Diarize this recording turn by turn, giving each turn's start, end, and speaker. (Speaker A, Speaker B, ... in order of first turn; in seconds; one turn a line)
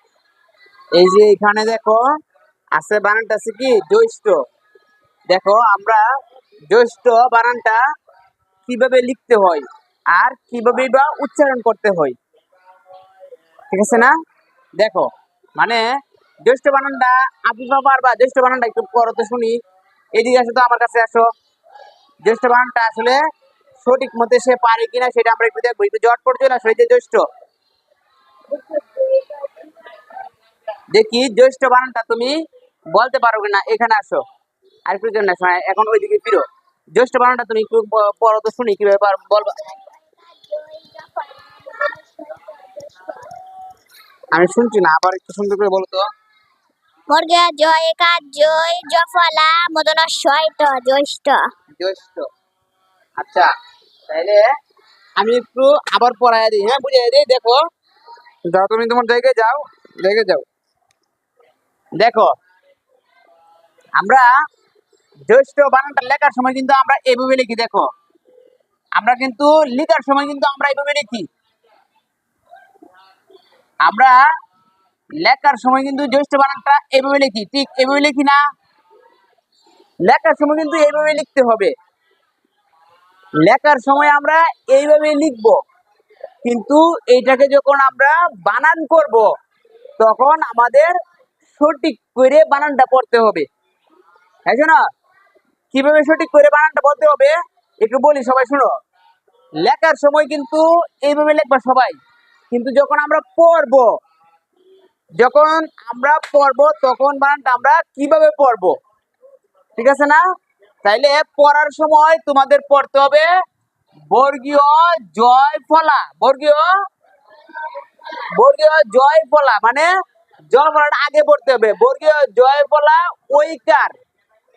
Speaker A: 0.9-2.0
Speaker A: 2.8-4.4
Speaker A: 5.3-6.0
Speaker A: 6.7-7.8
Speaker A: 8.7-12.2
Speaker A: 13.7-14.1
Speaker A: 14.8-15.8
Speaker A: 16.4-19.6
Speaker A: 20.1-21.3
Speaker A: 22.2-23.2
Speaker A: 23.8-27.2
Speaker B: 28.5-29.7
Speaker A: 30.9-32.4
Speaker A: 32.9-34.2
Speaker A: 34.9-36.4
Speaker A: 37.0-39.6
Speaker B: 39.6-43.3
Speaker A: 44.3-46.0
Speaker B: 47.1-51.4
Speaker A: 51.8-52.3
Speaker A: 53.2-53.5
Speaker A: 54.1-54.4
Speaker A: 55.2-57.6
Speaker A: 58.5-60.4
Speaker A: 62.0-62.3
Speaker A: 64.0-64.3
Speaker A: 65.3-67.9
Speaker A: 69.0-71.3
Speaker A: 73.8-74.2
Speaker A: 75.2-78.4
Speaker A: 80.0-81.7
Speaker A: 83.4-85.6
Speaker A: 86.4-89.3
Speaker A: 90.0-90.9
Speaker A: 91.5-93.5
Speaker A: 94.5-94.8
Speaker A: 95.7-98.7
Speaker A: 99.6-102.0
Speaker A: 102.5-103.9
Speaker A: 105.2-108.8
Speaker A: 109.8-110.2
Speaker A: 110.8-113.3
Speaker A: 114.1-116.7
Speaker A: 118.3-119.9
Speaker A: 120.5-123.9